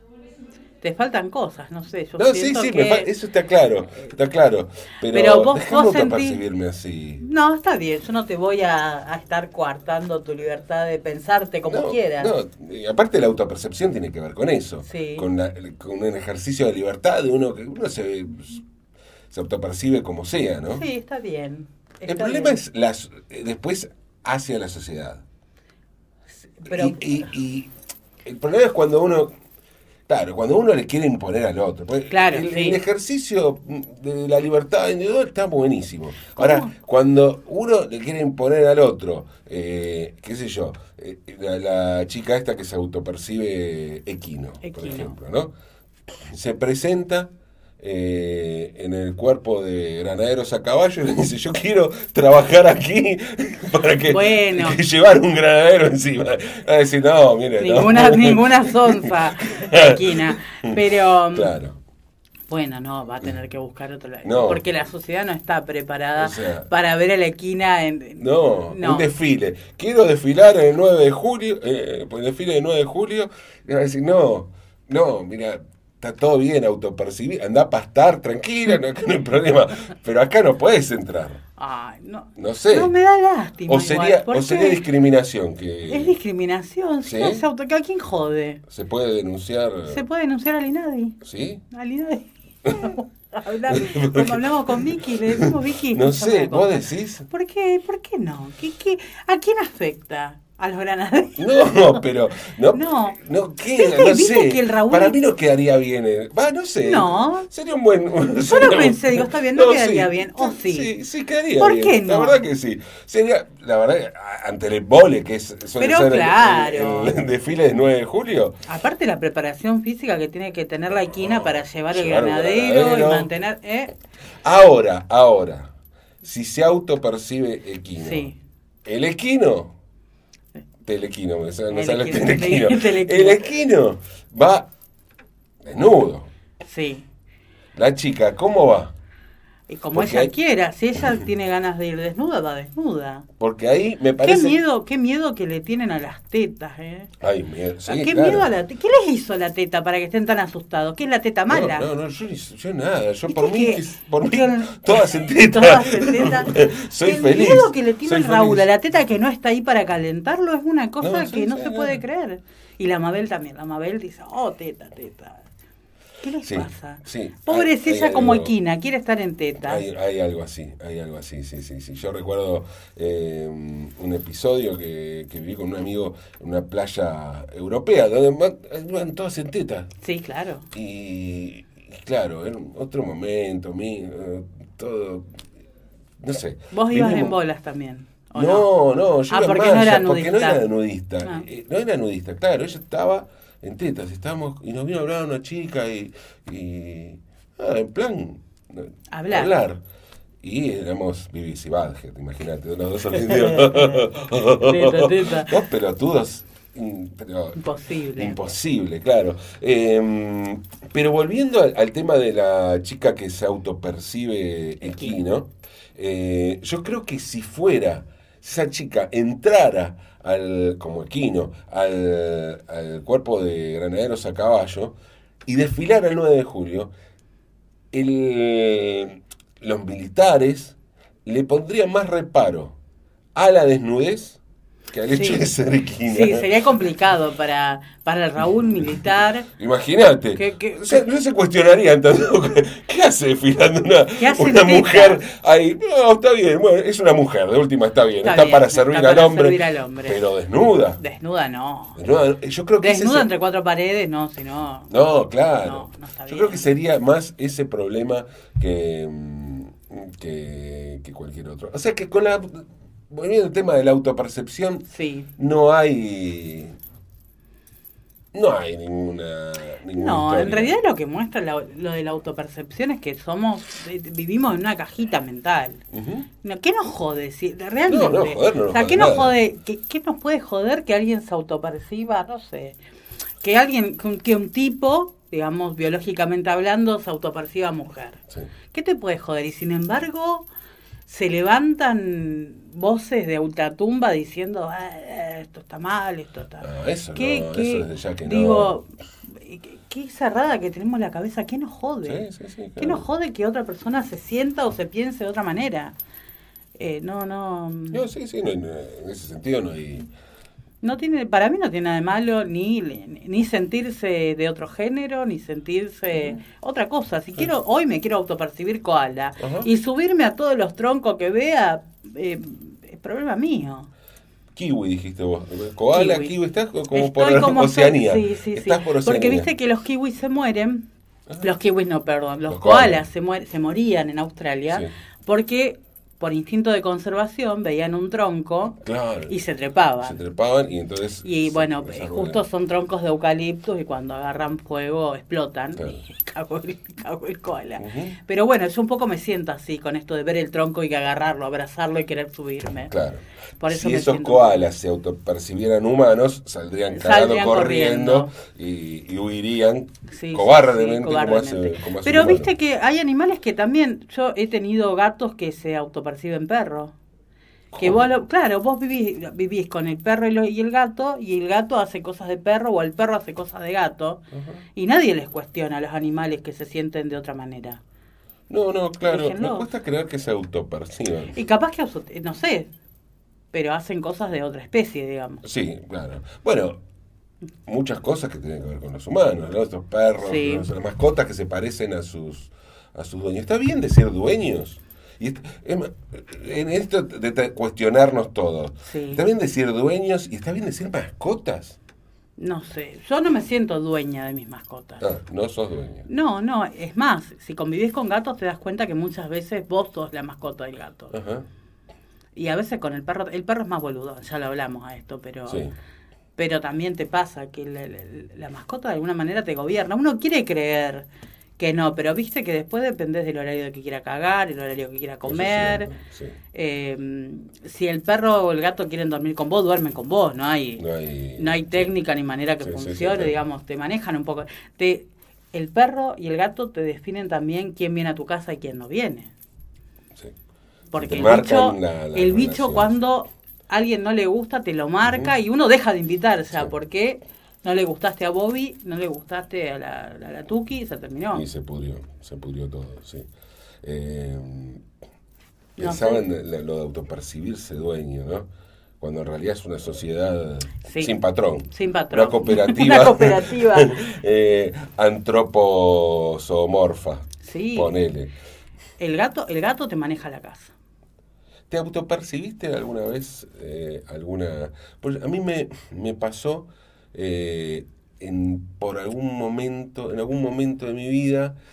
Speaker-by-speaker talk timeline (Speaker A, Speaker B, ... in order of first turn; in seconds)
Speaker A: 0.8-3.1, 5.1-6.4, 7.2-12.4, 14.8-15.3, 20.7-22.6, 26.4-27.2, 32.1-32.8, 36.3-36.7, 44.6-45.1, 54.1-54.8, 57.6-61.6, 62.5-69.1, 81.6-84.8, 85.9-88.6, 89.9-91.2, 91.7-102.0, 102.7-103.2, 103.7-105.2, 106.8-107.5, 108.4-110.9, 111.6-112.4, 115.8-117.2, 118.7-123.9, 128.0-128.4, 131.7-133.4, 136.6-137.1, 139.7-143.3, 144.2-147.1, 147.8-151.9, 153.3-165.5, 166.2-169.8, 180.0-180.7, 186.7-188.7, 189.3-190.7, 199.1-199.6, 203.3-205.6, 207.6-208.4, 214.8-215.2, 235.1-235.5, 236.1-239.5, 240.3-241.0, 244.2-245.2, 248.2-250.3, 251.0-252.0, 252.8-254.9, 255.6-256.7, 264.9-265.3, 269.9-275.8, 276.4-282.8, 283.4-290.5, 291.1-306.0, 306.8-308.0, 310.8-323.9, 325.9-326.4, 326.9-330.9, 331.4-340.2, 341.2-352.9, 353.6-354.7, 356.9-358.3, 360.1-366.9, 367.8-374.2, 374.7-377.8, 379.0-379.7, 381.3-382.7, 383.5-385.4, 390.2-390.6, 398.8-399.2, 402.4-405.1, 406.1-411.1, 412.4-415.7, 416.4-421.1, 421.6-425.9, 426.5-430.9, 431.4-439.3, 440.9-451.4, 455.8-456.2, 460.8-461.2, 461.7-464.1, 467.4-467.9, 469.0-470.7
Speaker B: 2.2-7.2, 11.7-18.6, 19.3-20.9, 22.1-25.2, 26.7-27.7, 28.2-29.3, 30.1-45.5, 46.3-61.8, 64.2-64.6, 66.2-66.7, 68.2-81.4, 82.4-82.9, 83.7-86.2, 87.0-87.5, 88.7-90.0, 91.2-91.6, 92.7-93.0, 93.7-97.3, 101.4-118.6, 121.2-123.3, 124.4-128.3, 128.8-129.7, 130.9-134.7, 135.6-136.3, 137.8-138.9, 139.9-140.3, 143.4-144.6, 147.2-148.5, 151.5-158.7, 161.0-162.0, 166.4-168.6, 169.6-179.9, 180.7-185.4, 186.2-187.4, 188.3-199.8, 200.4-207.6, 208.2-226.9, 227.9-232.8, 233.3-236.5, 239.6-251.0, 252.0-253.3, 254.9-266.8, 268.3-270.8, 275.9-276.3, 277.9-279.4, 296.6-298.8, 302.0-303.1, 307.9-310.1, 319.4-319.7, 324.6-329.5, 331.3-331.6, 332.5-333.1, 338.8-339.4, 340.0-342.4, 347.8-348.2, 352.9-362.5, 367.7-368.1, 374.3-374.6, 378.5-381.4, 385.4-386.8, 387.7-401.8, 405.0-406.1, 411.1-411.5, 415.5-415.8, 425.2-426.4, 430.8-431.9, 432.6-433.4, 441.0-443.0, 445.0-445.3, 451.3-453.3, 453.8-454.8, 455.8-458.5, 459.0-468.3, 471.7-481.6